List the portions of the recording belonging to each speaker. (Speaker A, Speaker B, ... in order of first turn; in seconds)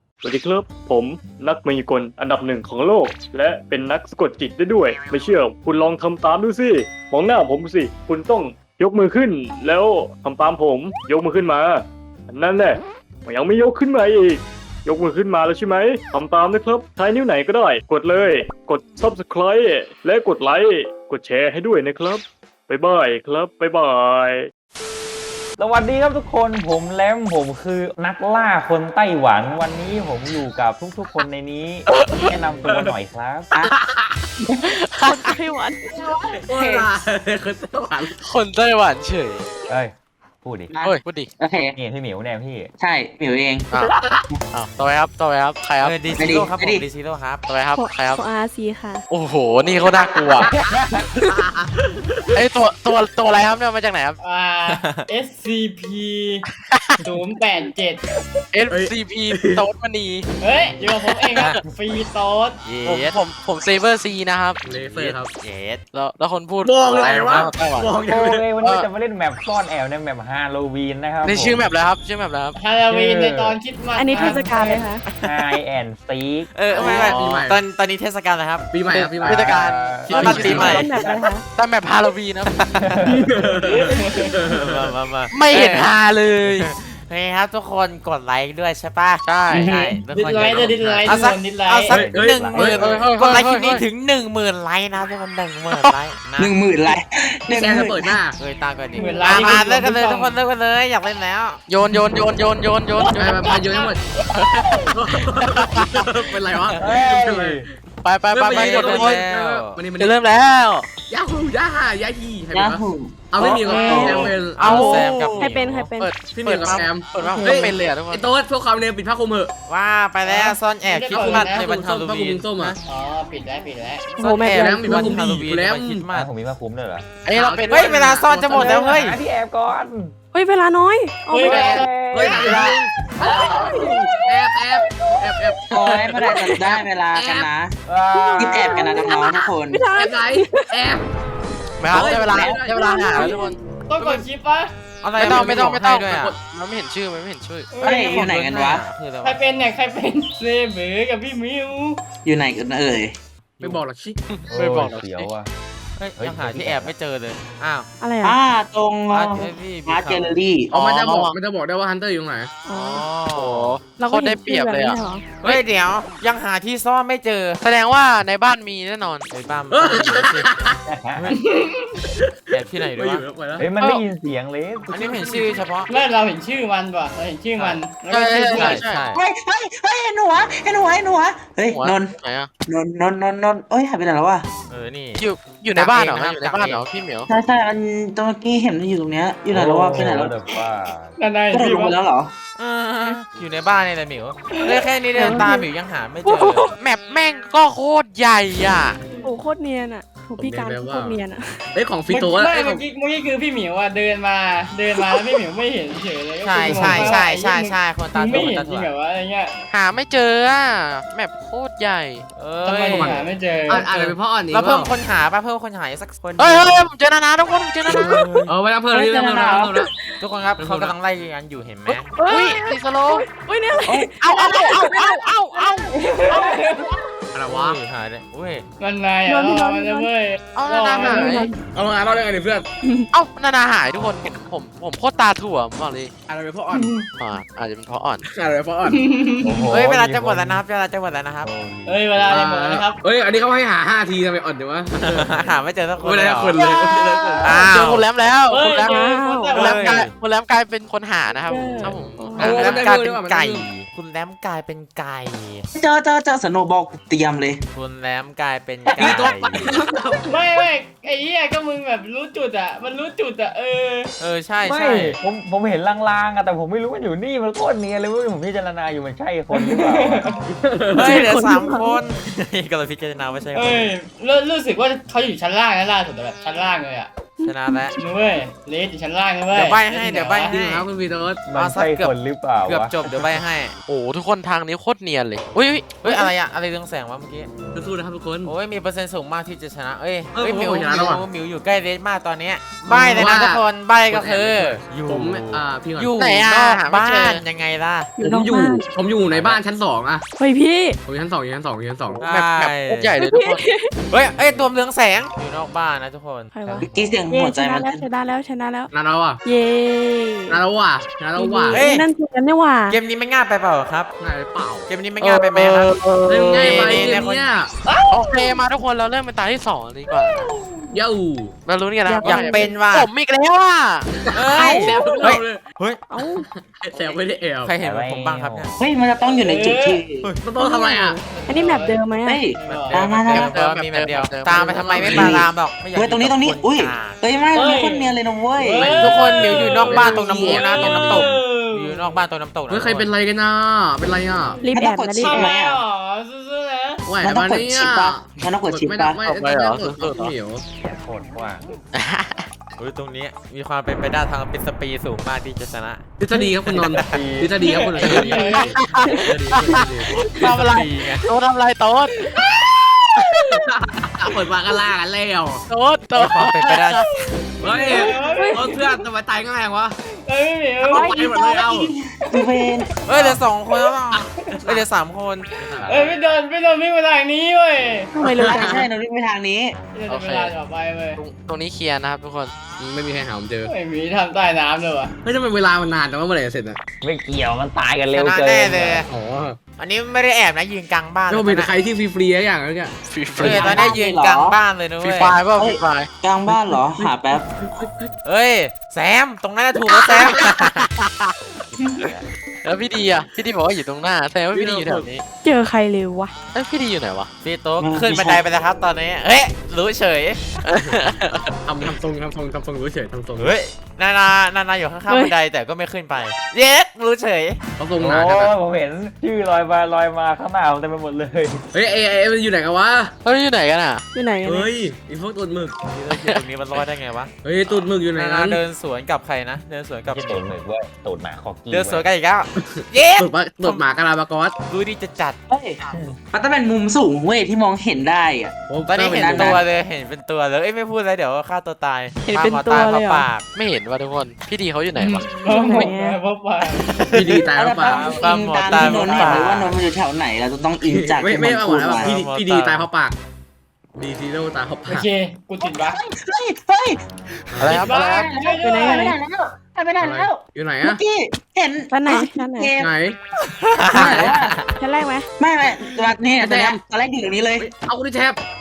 Speaker A: 0.2-11.8, 12.3-24.4
Speaker B: 25.6-33.5, 39.7-40.7, 41.8-42.7, 67.2-67.5, 68.0-71.7, 72.9-73.6, 74.1-76.6, 78.9-81.3, 82.8-83.5, 91.9-93.1, 106.8-107.7, 126.1-127.0, 128.5-130.1, 131.4-132.8, 137.9-138.9, 154.5-155.5, 156.2-156.9, 170.9-171.4, 173.6-174.9, 189.5-191.2, 239.4-240.6, 241.4-242.4, 264.6-270.3, 281.5-283.4, 327.8-328.7, 350.8-351.8, 356.7-358.1, 387.0-389.1, 418.0-421.6, 430.0-432.0
Speaker C: 31.9-32.3, 34.8-35.2, 38.2-39.5, 40.8-41.3, 44.5-46.0, 47.5-48.2, 49.1-50.5, 52.3-54.2, 58.5-60.3, 62.8-64.6, 65.9-67.9, 68.6-68.9, 71.2-72.5, 76.8-77.4, 78.9-80.9, 81.5-82.5, 85.3-86.7, 89.2-89.7, 92.5-93.8, 101.7-103.6, 104.4-106.0, 108.0-109.2, 110.0-110.9, 113.8-118.3, 127.2-128.0, 132.4-132.7, 135.7-136.9, 141.8-143.6, 145.2-147.7, 154.4-155.3, 160.7-161.4, 162.7-165.6, 167.6-169.2, 178.1-179.1, 181.7-182.5, 185.2-187.3, 196.2-199.0, 209.7-212.2, 216.4-218.2, 221.9-223.2, 223.9-226.8, 230.6-231.5, 233.1-236.1, 237.2-238.2, 247.6-249.0, 249.5-252.8, 283.9-286.2, 296.1-297.4, 302.1-303.6, 315.2-317.1, 318.1-320.5, 321.6-324.1, 333.3-335.4, 349.2-350.3, 351.9-352.5, 358.0-362.3, 365.7-367.1, 380.1-380.5, 381.2-382.5, 393.1-393.9, 395.0-396.1, 399.9-401.3, 402.6-405.2, 406.5-407.3, 410.7-411.5, 423.2-424.0, 426.1-426.4, 435.9-436.1, 443.5-445.3, 457.6-458.3
Speaker D: 32.6-32.9, 33.5-34.2, 36.0-38.2, 51.2-52.4, 58.7-59.6, 64.6-65.3, 66.6-68.5, 76.7-77.6, 78.7-79.6, 80.3-80.8, 83.2-84.9, 91.9-92.8, 97.4-98.4, 103.1-104.0, 104.9-107.7, 108.3-110.2, 111.1-115.0, 116.3-119.5, 121.1-122.8, 124.5-126.1, 127.3-129.0, 131.4-136.5, 137.1-137.5, 139.9-141.1, 141.8-143.4, 153.6-154.2, 160.7-162.5, 169.7-170.8, 172.2-173.7, 174.9-175.6, 200.4-201.2, 201.7-202.8, 206.8-207.1, 212.9-214.9, 217.9-219.9, 220.6-220.9, 227.3-227.8, 231.0-232.7, 236.3-236.9, 238.3-239.0, 242.3-245.4, 246.0-247.6, 252.3-253.7, 259.0-260.4, 270.6-271.2, 280.0-281.4, 287.7-288.5, 290.3-291.2, 292.8-296.1, 298.2-300.2, 301.1-302.2, 308.9-309.4, 310.5-311.8, 314.2-314.9, 316.3-317.7, 320.9-321.5, 324.2-325.6, 326.6-327.8, 330.4-331.2, 334.7-335.4, 338.7-341.3, 342.7-344.6, 347.1-350.6, 356.2-360.1, 362.2-362.5, 363.2-365.6, 367.6-369.9, 370.9-371.9, 373.1-373.4, 374.1-374.8, 375.7-376.1, 378.2-378.8, 382.8-383.7, 385.2-386.8, 389.1-389.6, 391.3-393.7, 396.5-398.1, 404.5-405.1, 411.6-413.6, 417.8-418.5, 421.7-423.1, 424.4-425.8, 427.4-428.6, 432.6-434.5, 438.6-439.6, 447.1-447.9, 450.9-453.2, 453.9-455.1, 457.5-457.8, 460.0-461.0, 462.8-463.2, 463.9-464.3, 466.4-466.8, 467.6-468.4
Speaker E: 35.0-36.0, 47.8-49.0, 73.9-75.0, 80.4-81.4, 113.5-117.7, 124.2-125.2, 130.3-131.9, 133.8-135.1, 138.2-140.8, 142.7-143.5, 158.0-158.4, 162.7-163.1, 163.8-165.2, 195.1-195.7, 199.2-201.7, 218.1-218.4, 219.8-220.2, 222.2-225.9, 229.2-230.1, 231.0-231.6, 232.8-233.1, 248.9-249.5, 251.5-252.5, 270.9-272.0, 277.4-277.9, 298.2-298.9, 300.4-301.0, 303.2-303.9, 306.5-308.9, 309.4-310.6, 311.3-313.0, 322.1-322.8, 326.1-326.5, 330.5-332.5, 344.6-345.4, 360.3-360.8, 368.2-369.0, 370.9-371.8, 378.1-378.9, 405.4-406.3, 415.1-415.3, 424.1-424.7, 442.2-443.3, 445.5-446.2, 458.6-459.1, 461.9-462.8, 464.1-465.3
Speaker F: 35.9-36.9, 40.7-41.8, 42.8-44.4, 46.2-46.9, 50.0-50.4, 89.5-90.0, 96.4-98.2, 112.5-113.3, 135.8-137.8, 138.4-139.8, 141.9-142.5, 147.8-148.9, 152.2-153.2, 158.2-160.8, 179.1-182.1, 182.7-184.5, 187.3-190.3, 191.5-192.3, 218.9-219.8, 255.8-257.6, 258.9-259.4, 306.8-308.1, 328.8-330.3, 332.2-333.5, 335.1-338.8, 339.8-340.5, 344.7-345.8, 347.2-349.2, 371.9-372.9, 378.7-379.8, 393.5-394.6, 395.5-397.9, 407.8-408.5, 435.5-435.8, 436.3-438.6, 439.2-439.6, 447.5-452.1, 455.6-457.0, 457.8-462.9, 463.9-464.6, 465.4-467.7
Speaker G: 45.8-47.4, 54.7-55.0, 62.6-63.2, 64.6-65.8, 76.5-78.7, 80.0-81.0, 82.5-83.1, 83.8-85.9, 86.5-96.5, 98.4-101.6, 108.5-109.8, 113.4-115.9, 119.7-122.8, 124.2-126.3, 127.7-129.2, 145.0-146.3, 147.8-149.4, 156.0-157.9, 159.1-160.4, 162.8-163.8, 165.4-167.6, 169.3-170.5, 172.5-173.2, 174.9-175.9, 178.5-179.2, 184.7-186.8, 192.6-196.6, 206.4-208.9, 212.3-213.2, 213.8-216.8, 217.9-218.5, 220.2-222.1, 227.4-228.6, 239.7-241.5, 245.0-246.6, 247.4-248.1, 249.5-250.1, 252.4-255.7, 257.8-259.6, 264.2-265.2, 270.9-273.9, 277.4-277.9, 279.5-280.9, 281.5-283.7, 286.0-287.5, 288.4-298.1, 299.3-299.6, 302.2-303.2, 304.1-306.6, 311.7-312.1, 312.9-314.1, 314.9-315.9, 316.5-317.5, 322.2-323.1, 324.3-326.0, 326.9-328.8, 332.6-337.2, 338.6-343.1, 352.8-356.0, 356.7-357.2, 360.4-361.3, 366.1-367.0, 373.0-376.3, 388.1-389.1, 389.8-391.7, 393.4-395.4, 398.2-400.9, 407.4-410.4, 413.4-417.6, 425.9-430.4, 431.7-433.8, 434.7-435.4, 438.9-443.4, 446.9-449.8, 451.9-452.8, 463.5-464.8
Speaker H: 54.2-56.4, 57.0-58.0, 60.4-62.6, 72.5-74.8, 83.7-84.3, 90.1-91.9, 98.9-100.4, 103.5-103.9, 120.2-121.6, 122.8-124.1, 131.3-131.9, 133.2-133.8, 143.9-144.7, 147.7-148.1, 149.2-152.0, 171.3-171.9, 175.9-178.8, 191.2-191.9, 202.1-209.5, 212.6-213.8, 225.9-226.9, 228.8-231.4, 236.7-237.0, 238.8-239.7, 241.8-243.0, 246.6-247.6, 248.5-249.9, 260.2-264.1, 269.6-270.4, 273.5-277.1, 278.0-280.4, 317.8-318.3, 320.4-320.7, 329.2-330.0, 331.3-332.0, 332.5-333.0, 337.5-342.2, 345.2-347.0, 358.0-358.8, 367.6-368.7, 370.1-371.1, 375.9-378.6, 379.9-381.2, 383.6-385.1, 445.3-447.1, 454.9-456.0, 457.7-459.1